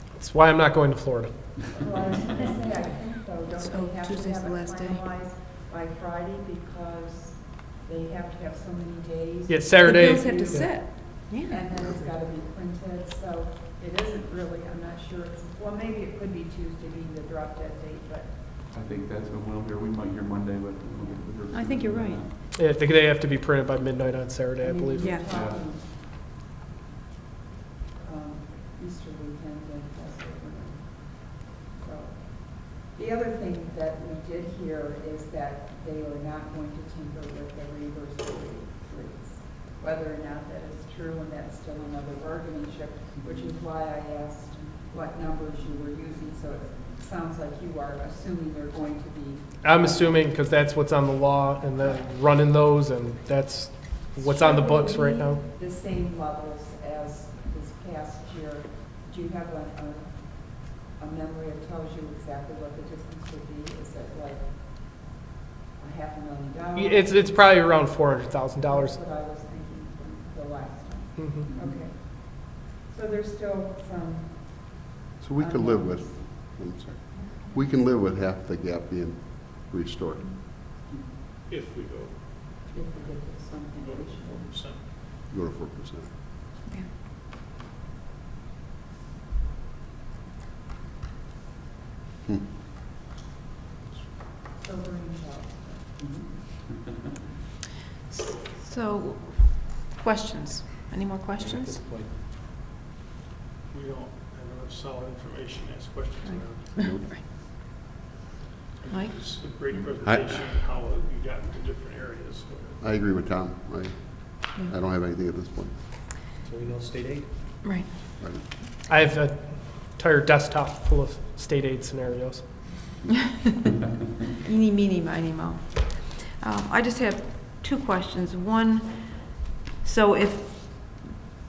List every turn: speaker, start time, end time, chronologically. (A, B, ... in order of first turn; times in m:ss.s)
0:00.2-0:01.7 A
0:01.7-0:18.4 B
0:03.5-0:05.0 C
0:09.5-0:10.8 A
0:09.8-0:11.7 C
0:18.7-0:22.3 D
0:21.5-0:22.2 C
0:22.5-0:25.2 A
0:24.6-0:25.9 B
0:25.0-0:25.3 C
0:25.3-0:25.6 D
0:28.0-0:50.1 B
0:49.6-0:55.4 A
0:54.5-1:05.1 B
0:54.6-0:55.2 C
1:05.8-1:07.3 B
1:06.8-1:09.0 A
1:08.7-1:14.9 B
1:11.1-1:11.5 A
1:15.2-1:20.4 E
1:15.4-1:16.3 B
1:21.5-1:22.2 F
1:22.7-1:24.5 B
1:23.7-1:24.8 F
1:25.2-1:26.1 E
1:34.5-1:35.9 B
1:36.0-1:36.7 D
1:38.1-1:41.7 C
1:41.4-1:42.2 G
1:43.7-1:46.7 F
1:46.2-1:47.2 C
1:46.8-1:47.2 E
1:48.8-1:52.8 F
1:48.9-1:49.9 C
1:50.0-1:50.4 E
1:52.8-1:55.8 E
1:56.4-1:57.4 G
1:57.6-1:57.9 C
1:58.9-2:02.5 A
2:04.4-2:11.0 C